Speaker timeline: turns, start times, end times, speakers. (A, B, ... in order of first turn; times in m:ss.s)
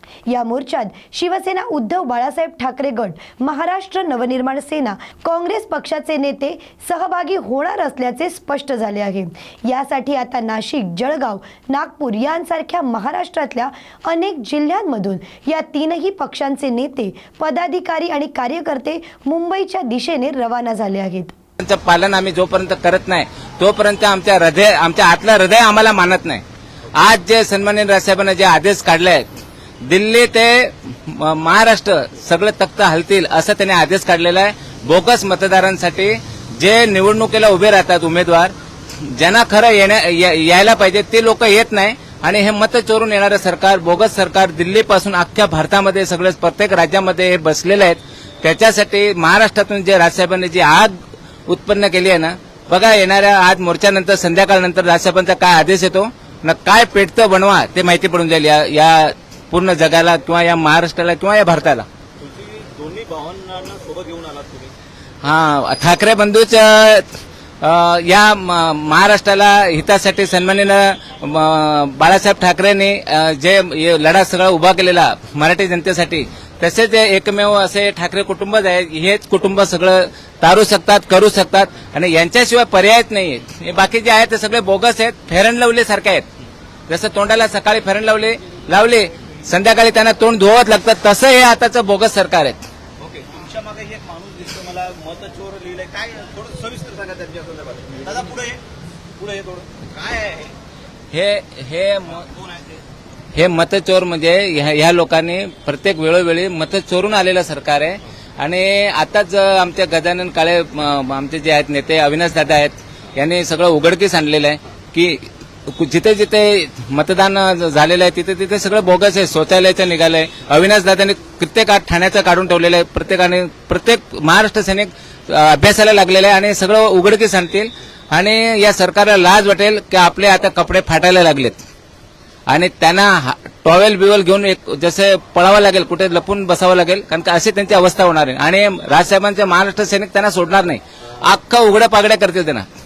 0:00.3-0:21.3 A
0:21.6-0:26.4 B
0:27.0-0:29.2 B
0:29.9-0:51.0 B
0:51.5-1:01.9 B
1:02.2-1:04.7 C
1:05.2-1:07.1 B
1:07.6-1:26.3 B
1:26.9-1:32.6 B
1:33.0-1:38.6 C
1:39.2-1:40.6 C
1:41.1-1:42.2 B
1:42.2-1:42.8 C
1:43.4-2:11.6 B
2:12.5-2:22.7 B
2:21.0-2:21.3 C